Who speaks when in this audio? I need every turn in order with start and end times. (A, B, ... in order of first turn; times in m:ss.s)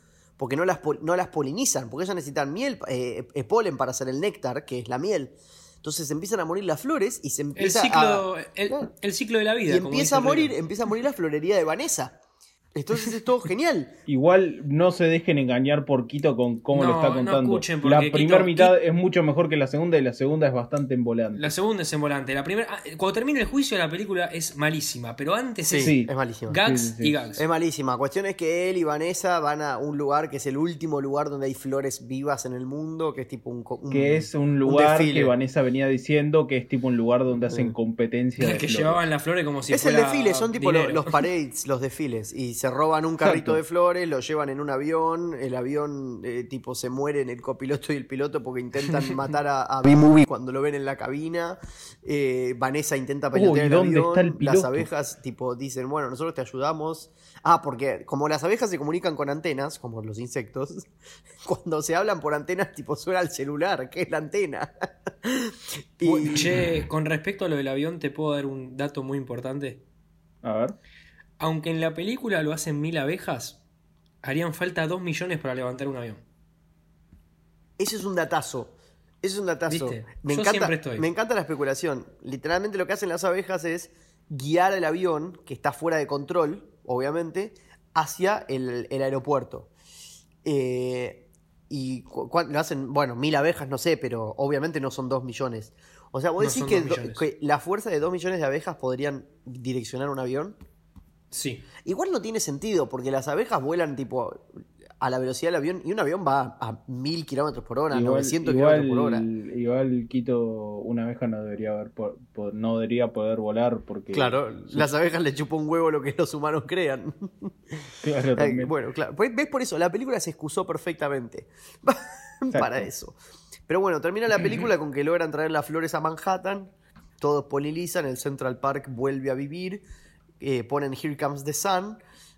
0:00.4-0:08.9 A
0:07.6-0:10.5 B
0:09.7-0:12.2 A
0:12.8-0:14.0 A
0:14.1-0:21.5 C
0:16.7-0:18.8 B
0:21.4-0:26.0 B
0:25.6-0:26.6 A
0:25.8-0:27.2 C
0:26.5-0:27.4 B
0:27.4-0:35.3 A
0:33.9-0:39.0 C
0:37.5-0:37.8 A
0:38.4-0:41.2 B
0:39.7-1:00.9 A
0:43.2-0:43.6 C
0:53.3-0:54.9 C
1:01.4-1:06.6 A
1:06.1-1:09.8 B
1:10.4-1:10.8 C
1:11.4-1:13.6 B
1:14.2-1:16.2 B
1:17.8-1:29.7 A
1:19.7-1:21.1 B
1:30.4-1:40.6 A
1:36.4-1:37.2 B
1:41.3-1:41.7 B
1:41.8-1:44.4 A
1:45.0-1:49.3 A
1:47.9-1:54.9 C
1:54.1-1:57.5 A
1:58.0-1:58.7 C
1:58.4-2:03.2 A
2:02.5-2:02.9 C
2:03.7-2:09.8 A
2:10.4-2:12.0 A